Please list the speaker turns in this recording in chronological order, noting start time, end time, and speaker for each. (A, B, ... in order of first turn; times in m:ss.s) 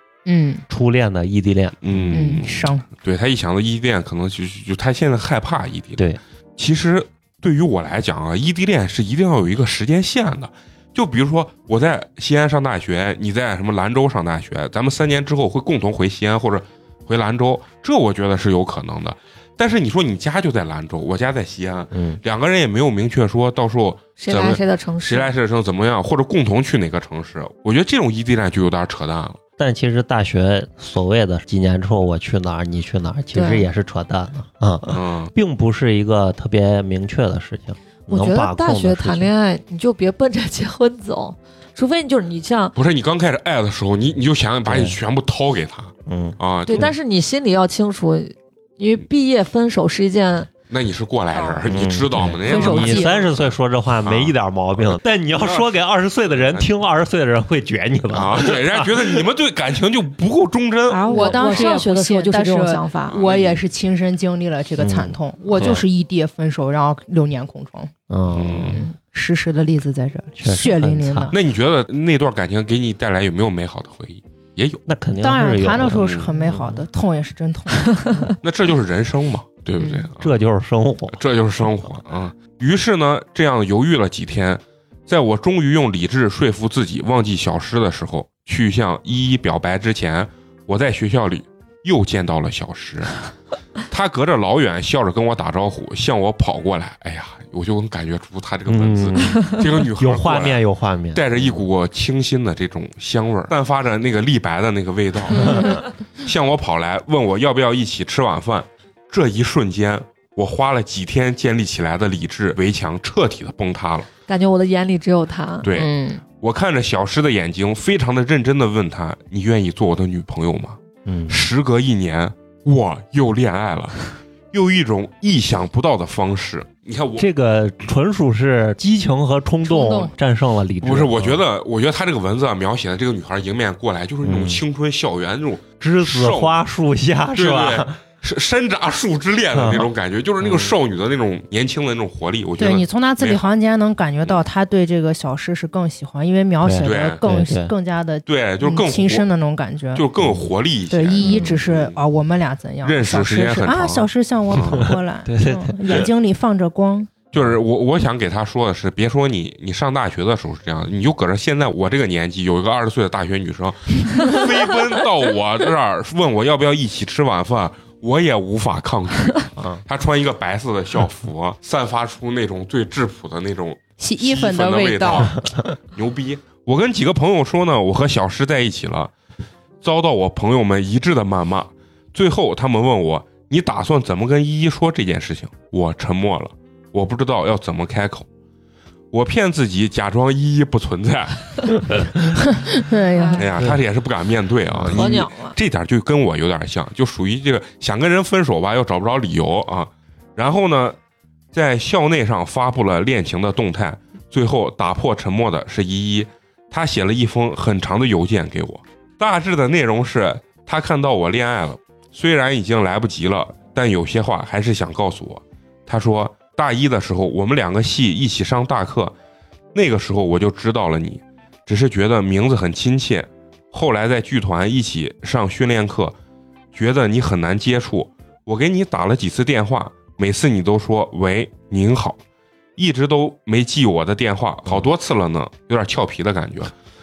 0:00.2-0:00.6 A
0:00.7-0:02.4 B
0:01.8-0:29.4 C
0:02.1-0:02.8 A
0:21.9-0:22.2 B
0:24.2-0:25.3 D
0:29.6-0:39.3 B
0:33.3-0:33.7 D
0:34.9-0:35.3 C
0:38.1-0:42.7 D
0:42.7-0:46.9 C
0:44.6-0:45.0 B
0:46.0-0:46.9 B
0:46.6-0:50.5 D
0:50.7-0:53.5 C
0:51.3-0:51.6 A
0:51.7-0:59.2 B
0:52.5-0:53.3 A
0:52.5-0:52.9 D
0:54.0-0:54.4 C
0:54.9-0:55.7 C
0:56.3-0:56.7 C
0:58.1-1:01.8 C
1:00.9-1:07.9 A
1:01.0-1:03.2 D
1:03.1-1:03.6 C
1:04.8-1:05.8 B
1:08.1-1:08.8 B
1:08.3-1:08.8 C
1:08.7-1:11.3 A
1:10.4-1:11.3 B
1:11.3-1:14.8 C
1:14.9-1:16.8 B
1:15.2-1:18.0 A
1:15.8-1:16.3 C
1:18.4-1:20.3 C
1:20.2-1:21.2 B
1:21.1-1:33.3 C
1:33.9-1:54.1 C
1:38.7-1:41.6 B
1:45.3-1:45.8 A
1:54.3-1:55.6 D
1:55.6-2:07.3 C
1:55.7-1:56.2 A
2:01.0-2:01.4 B
2:07.2-2:11.4 B
2:09.6-2:10.1 A
2:10.8-2:16.6 C
2:14.2-2:14.6 B
2:15.8-2:18.0 B
2:17.4-2:23.4 C
2:19.5-2:20.8 B
2:22.6-2:30.0 A
2:26.6-2:27.7 B
2:26.8-2:27.2 C
2:28.2-2:29.3 C
2:29.9-2:32.0 C
2:30.2-2:30.5 B
2:30.9-2:37.1 A
2:31.2-2:31.5 B
2:32.8-2:34.9 C
2:34.6-2:36.1 B
2:37.3-2:59.1 C
2:49.6-2:49.8 B
2:54.0-2:55.3 A
2:59.8-3:08.3 C
3:09.1-3:12.0 C
3:12.3-3:13.4 A
3:13.1-3:13.5 D
3:13.4-3:21.0 C
3:14.7-3:15.3 B
3:14.9-3:15.6 D
3:21.5-3:39.1 C
3:39.7-3:46.2 C
3:46.7-3:52.2 C
3:52.8-3:56.7 C